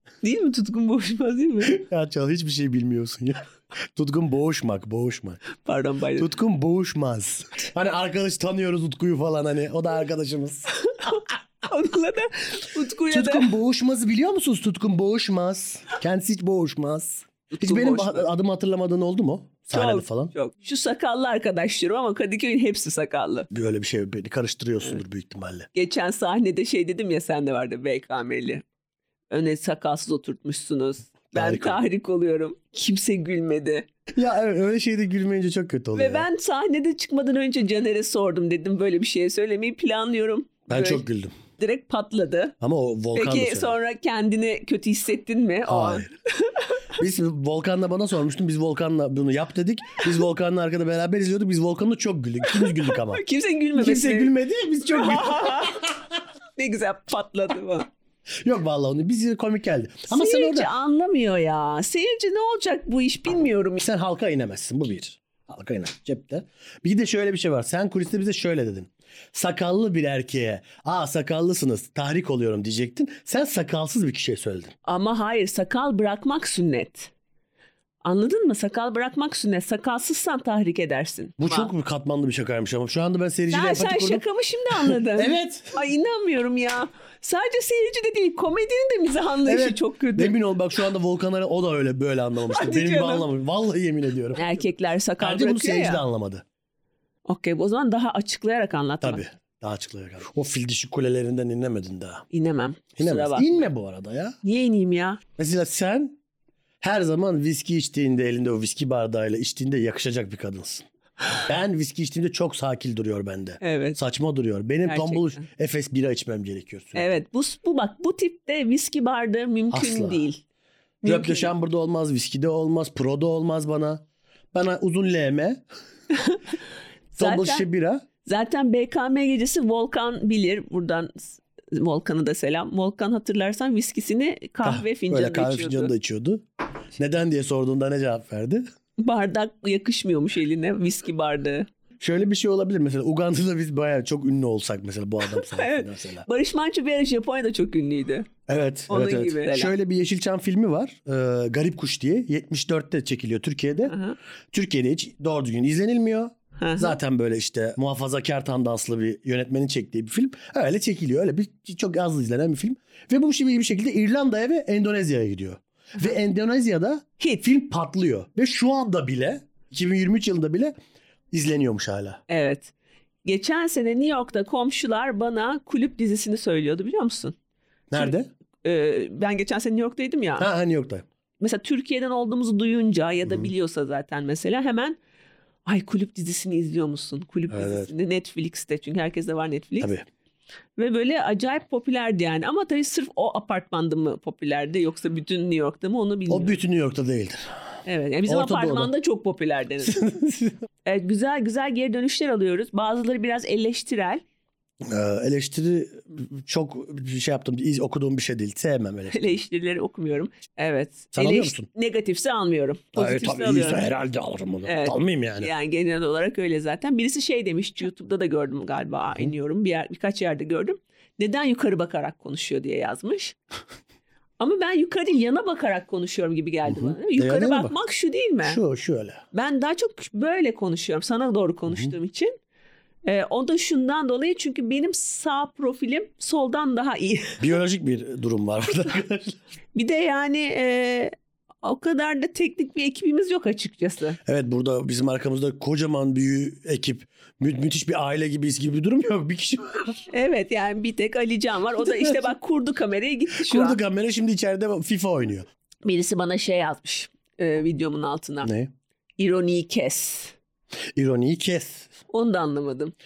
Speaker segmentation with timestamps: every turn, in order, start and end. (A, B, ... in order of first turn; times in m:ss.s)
0:00.2-0:01.8 A
0:01.7-0:05.4 B
0:05.6-0:06.3 A
0:06.2-0:10.7 B
0:10.9-0:13.5 A
0:13.1-0:20.3 B
0:17.5-0:18.2 A
0:19.7-0:23.5 A
0:23.5-0:25.7 B
0:25.7-0:28.6 A
0:29.3-0:33.8 A
0:31.3-0:31.8 B
0:34.1-0:36.2 B
0:35.9-0:41.0 A
0:40.7-0:41.3 B
0:41.6-0:42.5 A
0:42.6-0:43.7 B
0:43.1-0:46.7 A
0:45.7-0:46.1 B
0:47.0-0:53.2 B
0:52.5-0:54.3 A
0:53.8-0:55.8 B
0:54.8-0:55.8 A
0:56.6-0:57.9 A
0:58.4-1:00.7 B
1:00.1-1:03.8 A
1:03.8-1:14.7 B
1:14.8-1:17.1 A
1:18.0-1:21.7 A
1:21.4-1:24.2 B
1:23.5-1:30.3 A
1:24.8-1:25.8 B
1:29.4-1:34.4 B
1:32.5-1:33.3 A
1:34.3-1:36.0 A
1:35.2-1:36.4 B
1:37.2-1:39.2 A
1:39.0-1:42.2 B
1:42.3-1:43.6 A
1:43.0-1:44.4 B
1:44.4-1:45.2 A
1:45.4-1:46.2 B
1:46.8-1:50.8 B
1:51.4-1:57.0 B
1:53.6-1:54.0 A
1:54.9-1:55.4 A
1:57.0-2:00.4 A
1:59.7-2:00.2 B
2:01.0-2:01.5 A
2:01.0-2:05.6 B
2:06.1-2:06.4 A
2:07.1-2:07.6 A
2:07.2-2:08.0 B
2:08.2-2:15.9 A
2:14.6-2:16.4 B
2:17.0-2:18.6 B
2:19.0-2:21.7 A
2:22.0-2:26.2 B
2:25.3-2:28.3 A
2:28.5-2:33.9 B
2:28.9-2:29.7 A
2:33.9-2:34.1 A
2:34.5-2:50.7 B
2:36.6-2:37.0 A
2:47.2-2:47.5 A
2:51.3-2:52.2 B
2:52.3-2:52.7 A
2:53.2-2:57.3 A
2:57.9-2:58.3 B
2:57.9-3:00.5 A
3:00.4-3:01.0 B
3:01.4-3:05.0 A
3:05.6-3:09.9 A
3:07.5-3:07.9 B
3:10.8-3:16.5 A
3:16.3-3:17.5 B
3:17.8-3:20.0 A
3:18.3-3:18.9 B
3:19.8-3:20.6 B
3:20.8-3:24.2 A
3:24.8-3:29.4 B
3:29.1-3:33.8 A
3:31.1-3:31.7 B
3:32.9-3:35.5 B
3:34.6-3:43.3 A
3:44.4-3:48.6 A
3:46.6-3:47.8 B
3:48.4-3:49.2 B
3:49.3-3:52.3 A
3:53.0-3:57.4 A
3:57.4-3:59.4 B
3:59.7-4:04.2 A
4:04.2-4:10.0 B
4:10.1-4:13.8 A
4:13.4-4:15.4 B
4:15.8-4:18.5 A
4:18.4-4:18.7 B
4:19.2-4:20.3 A
4:21.0-4:21.9 B
4:22.1-4:22.9 A